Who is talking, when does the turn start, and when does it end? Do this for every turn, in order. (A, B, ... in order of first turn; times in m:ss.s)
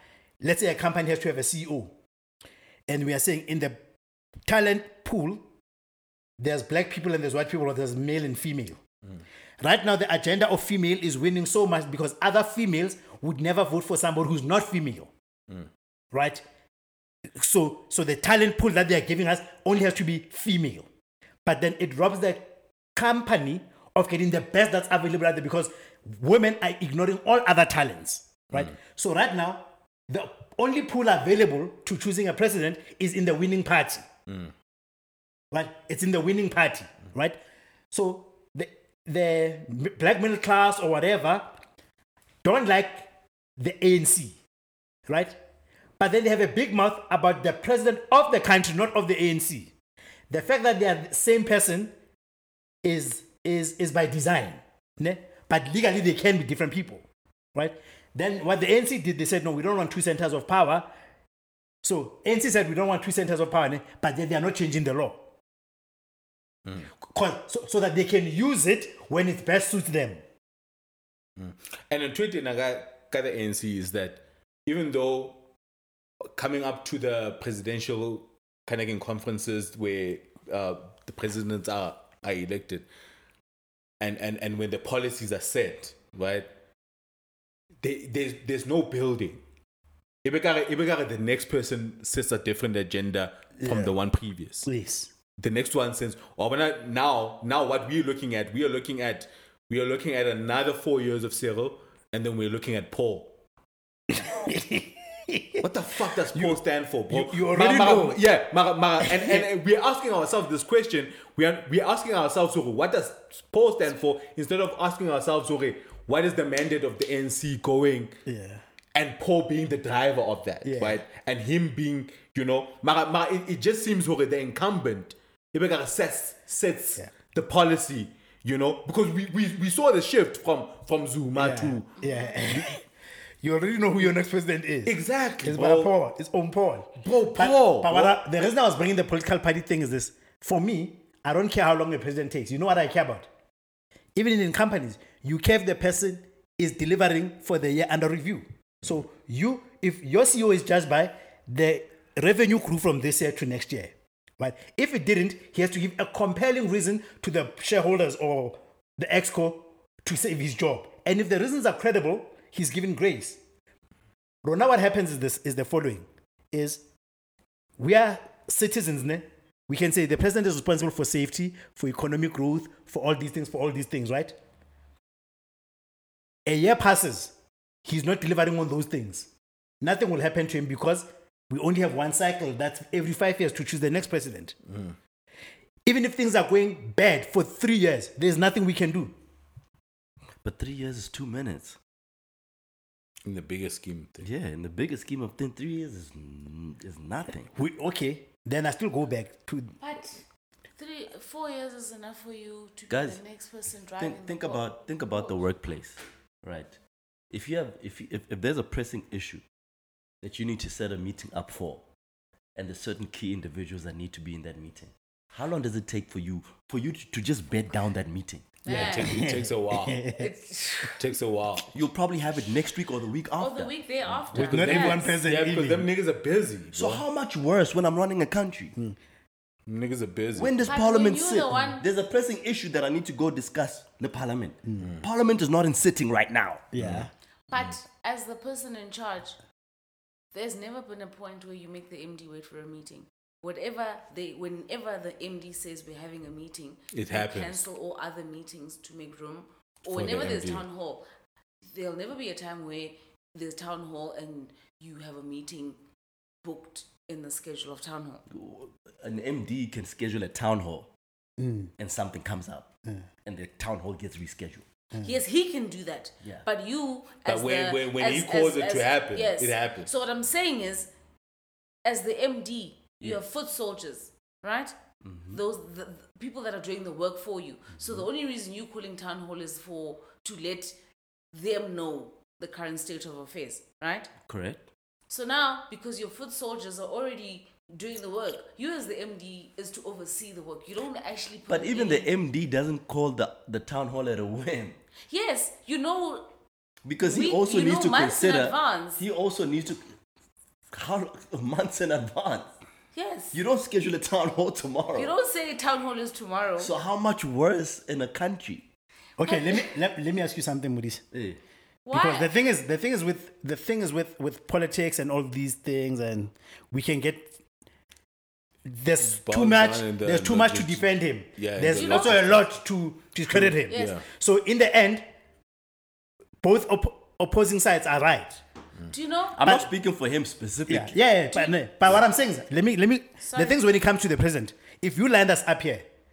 0:00.4-0:01.9 A
0:02.9-0:03.8 A
0:04.5-0:05.4 A
0:06.4-0:08.8 A
0:09.6-0:15.1 A
0:16.1-0:16.4 A
0:17.3-0:20.9 A
0:21.4-0:34.0 A
0:35.5-0:37.4 A
0:37.9-0:41.6 A
0:42.4-0:44.4 A
0:45.1-0:45.4 A
0:46.0-0:49.7 A
0:50.3-0:51.9 A
0:52.8-0:57.0 A
0:57.5-1:00.9 A
1:01.8-1:05.2 A
1:07.0-1:10.2 A
1:11.4-1:15.4 B
1:16.3-1:22.9 B
1:24.0-1:26.5 B
1:27.8-1:29.4 B
1:30.2-1:34.7 B
1:33.6-1:33.9 A
1:34.6-1:35.1 A
1:35.4-1:43.3 B
1:44.1-1:45.6 A
1:45.6-1:58.2 B
1:46.3-1:46.6 A
1:47.1-1:48.2 A
1:49.0-1:49.4 A
1:58.2-1:58.6 A
1:58.9-2:11.9 B
2:00.6-2:01.0 A
2:11.4-2:12.8 A
2:12.0-2:12.3 C
2:13.4-2:23.3 A
2:14.8-2:15.9 B
2:17.0-2:18.2 B
2:24.1-2:43.4 A
2:44.4-2:46.8 A
2:47.8-2:54.4 A
2:56.4-2:57.3 A
2:57.8-2:59.3 A
2:59.8-3:04.6 A
3:04.7-3:05.0 B
3:05.8-3:09.1 A
3:10.4-3:11.8 D
3:13.2-3:14.3 B
3:14.2-3:17.5 D
3:17.6-3:19.8 A
3:19.8-3:20.2 C
3:20.8-3:25.3 C
3:22.9-3:23.2 D
3:24.0-3:26.7 D
3:27.3-3:29.4 D
3:30.2-3:31.8 D
3:32.5-3:38.7 D
3:38.6-3:39.3 C
3:38.7-3:40.0 B
3:38.7-3:40.3 A
3:40.2-3:41.0 C
3:41.0-3:41.7 B
3:41.7-3:43.7 D
3:43.4-3:45.1 C
3:44.3-3:47.0 B
3:44.3-3:45.9 A
3:46.7-3:48.7 D
3:49.7-3:50.7 B
3:50.4-3:56.6 D
3:50.6-3:51.8 C
3:56.7-3:57.1 A
3:56.8-3:57.0 B
3:57.5-3:59.4 C
4:00.3-4:11.0 C
4:06.9-4:07.6 B
4:09.9-4:10.6 B
4:11.7-4:15.8 C
4:16.4-4:18.2 C
4:18.3-4:20.9 D
4:21.4-4:21.7 A
4:21.8-4:22.7 D
4:23.2-4:24.6 D
4:25.0-4:30.9 C
4:27.2-4:29.9 B
4:31.8-4:34.7 C
4:35.0-4:35.4 D
4:35.3-4:40.8 C
4:41.3-4:44.1 C
4:44.2-4:44.6 D
4:45.1-4:52.1 C
4:51.5-4:54.8 D
4:55.1-4:56.2 C
4:56.8-4:59.8 D
4:57.0-4:59.0 C
5:00.7-5:02.5 D
5:02.9-5:03.4 C
5:03.3-5:05.1 D
5:04.9-5:06.7 C
5:06.6-5:08.6 D
5:09.2-5:11.0 A
5:09.2-5:09.7 C
5:11.1-5:11.4 D
5:11.8-5:12.3 C
5:11.9-5:17.4 A
5:18.6-5:25.0 A
5:19.0-5:22.4 B
5:21.7-5:22.3 C
5:23.3-5:24.0 B
5:23.7-5:24.0 C
5:26.4-5:28.4 A
5:28.9-5:29.4 C
5:29.3-5:30.9 D
5:30.7-5:35.8 A
5:33.2-5:33.6 C